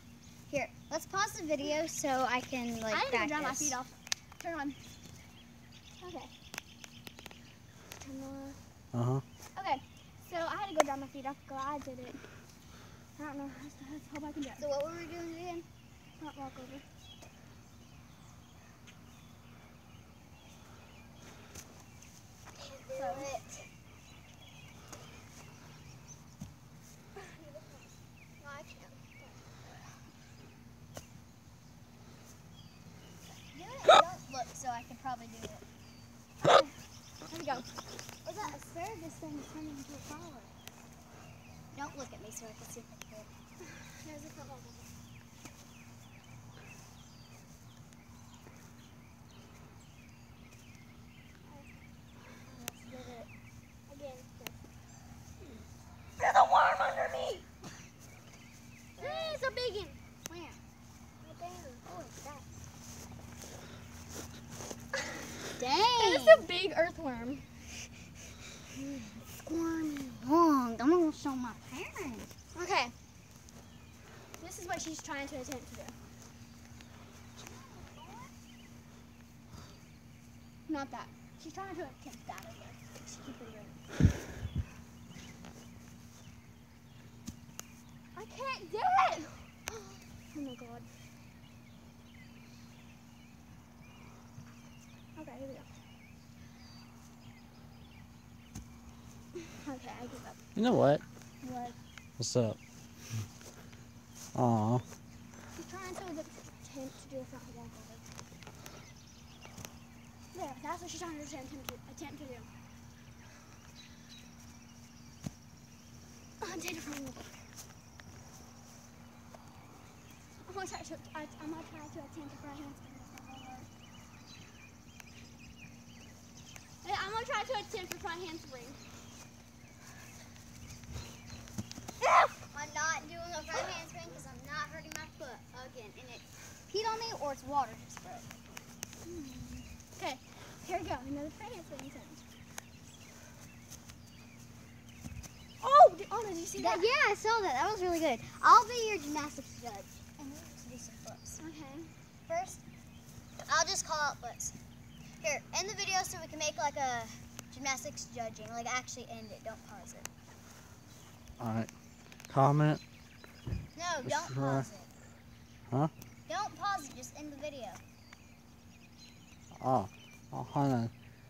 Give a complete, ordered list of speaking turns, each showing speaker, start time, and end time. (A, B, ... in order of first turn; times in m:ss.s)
0:00.5-0:03.8 A
0:02.9-0:04.8 B
0:06.0-0:06.3 B
0:08.0-0:08.6 B
0:08.9-0:09.2 C
0:09.6-0:12.4 B
0:13.2-0:14.7 B
0:14.6-0:15.7 A
0:16.2-0:16.8 B
0:22.6-0:23.7 A
0:23.0-0:23.3 B
0:27.2-0:29.5 B
0:33.5-0:35.6 A
0:36.4-0:36.8 B
0:37.3-0:37.7 B
0:38.2-0:40.5 A
0:41.7-0:43.3 A
0:43.6-0:44.9 B
0:51.4-0:51.7 B
0:52.4-0:53.3 A
0:53.9-0:54.6 B
0:56.4-0:57.4 A
0:59.0-0:59.6 A
0:59.0-1:00.6 B
1:01.2-1:01.9 B
1:01.8-1:02.4 A
1:05.5-1:06.5 A
1:05.9-1:07.9 B
1:08.9-1:12.3 A
1:12.5-1:12.9 B
1:14.4-1:16.0 B
1:17.4-1:18.3 A
1:20.7-1:23.8 B
1:28.1-1:29.6 B
1:29.7-1:30.0 A
1:30.2-1:30.9 B
1:35.2-1:35.7 B
1:39.6-1:40.4 B
1:40.6-1:41.0 C
1:41.4-1:41.8 B
1:42.2-1:42.6 C
1:44.3-1:44.8 C
1:45.6-1:48.2 B
1:50.3-1:52.5 B
1:56.4-1:57.5 B
2:00.4-2:03.7 B
2:06.8-2:08.8 B
2:12.5-2:18.4 A
2:19.0-2:22.2 B
2:25.6-2:26.9 B
2:26.6-2:31.4 A
2:31.4-2:31.9 B
2:32.3-2:32.6 A
2:33.4-2:34.6 A
2:35.2-2:40.1 A
2:41.4-2:41.7 C
2:42.3-2:42.8 C
2:43.8-2:44.9 A
2:44.0-2:44.7 C
2:46.3-2:47.8 A
2:49.6-2:50.9 C